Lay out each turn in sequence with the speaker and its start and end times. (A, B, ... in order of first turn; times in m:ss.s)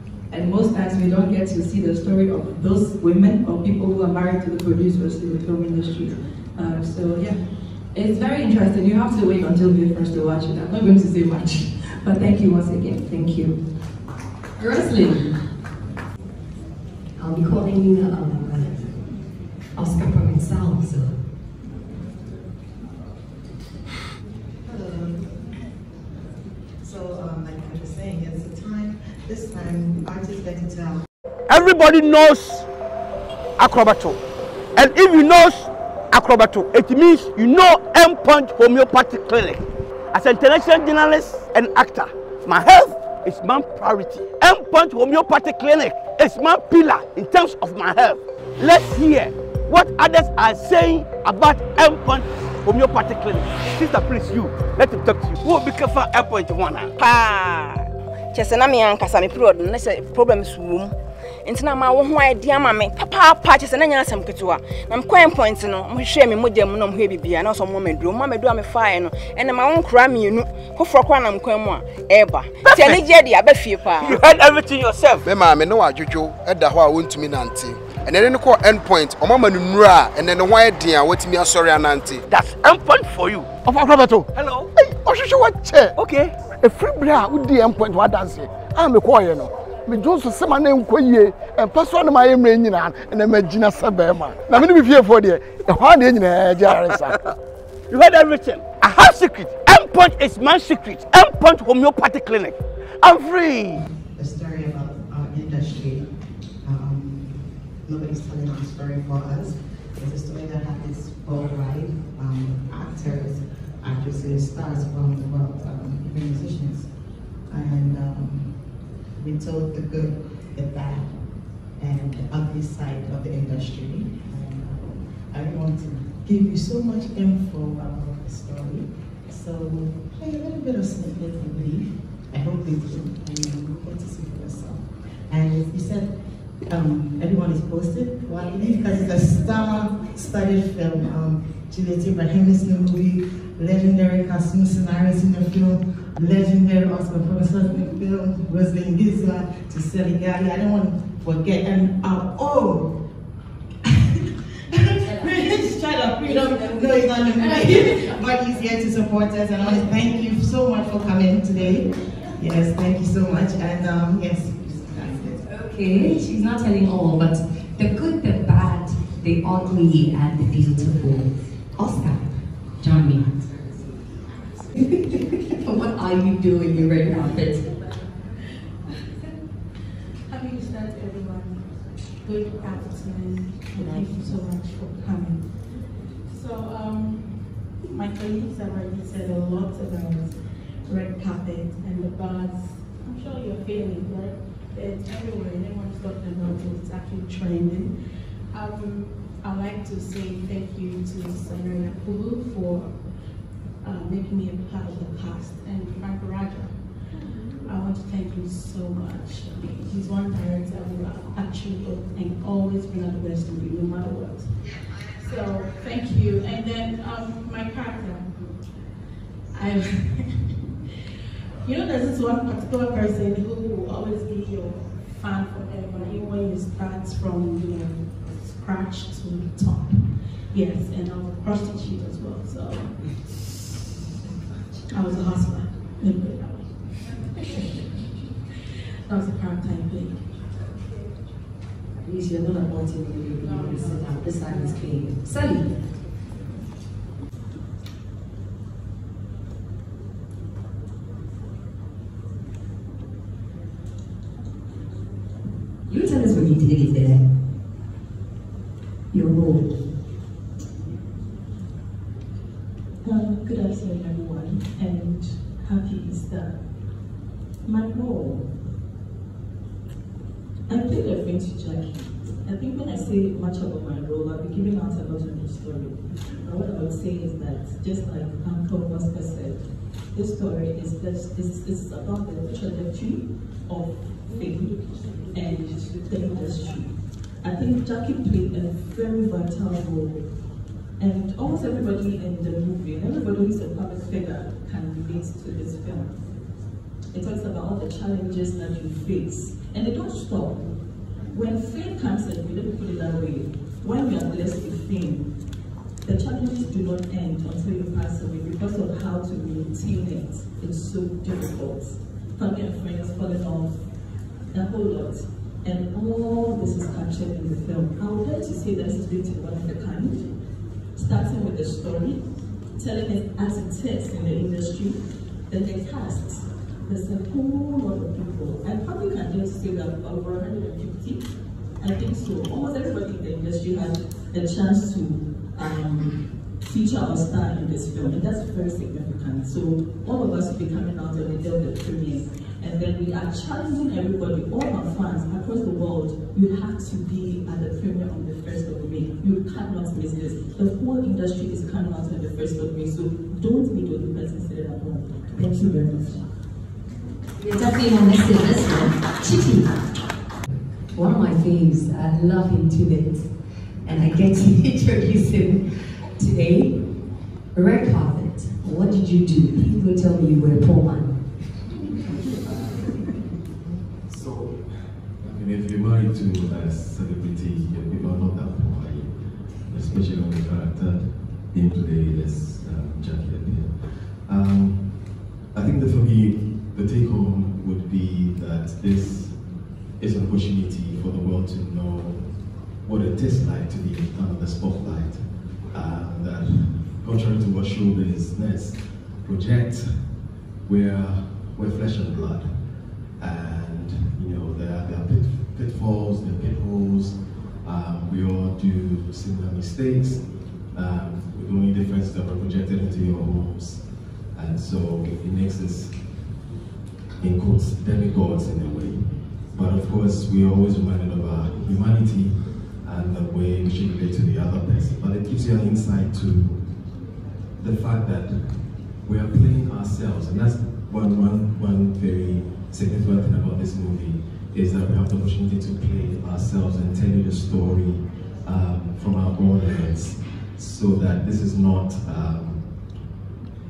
0:00.3-0:13.6 A
0:14.6-0:15.4 B
0:17.2-0:19.2 B
0:19.8-0:21.2 B
0:24.6-0:25.5 C
0:26.8-0:31.1 C
0:31.5-0:32.7 D
0:33.6-0:34.2 D
0:34.8-0:56.9 D
0:57.0-1:00.9 E
1:01.4-1:14.4 E
1:12.6-1:13.0 D
1:14.0-1:15.3 D
1:15.2-1:22.2 F
1:22.3-1:23.6 D
1:23.6-1:24.2 G
1:24.3-1:25.0 D
1:25.0-1:25.9 G
1:25.9-1:26.4 D
1:26.6-1:37.2 G
1:36.7-1:37.2 D
1:37.9-1:43.8 D
1:44.2-1:46.1 C
1:46.6-1:56.9 C
1:57.5-1:58.6 C
1:59.2-2:01.1 C
2:01.7-2:16.2 C
2:16.7-2:32.9 C
2:34.9-2:45.4 C
2:45.5-2:53.4 B
2:55.6-2:57.7 B
3:00.3-3:18.0 H
3:18.5-3:23.0 H
3:23.8-3:26.9 H
3:27.5-3:38.6 H
3:39.5-3:40.5 H
3:41.6-3:53.4 H
3:54.9-3:57.6 H
3:59.1-4:00.3 H
4:02.0-4:05.8 B
4:03.4-4:04.8 H
4:15.9-4:17.2 B
4:19.1-4:19.8 B
4:23.0-4:26.6 I
4:27.6-4:28.5 I
4:30.7-4:50.3 I
4:51.0-4:56.2 I
4:57.1-5:00.8 I
5:01.3-5:05.3 I
5:06.0-5:13.8 I
5:14.5-5:20.3 I
5:20.9-5:22.2 I
5:22.8-5:31.3 I
5:31.8-5:56.3 I
5:57.4-5:59.8 B
6:00.9-6:11.1 B
6:12.4-6:12.9 J
6:13.6-6:56.3 J
6:57.2-7:23.1 J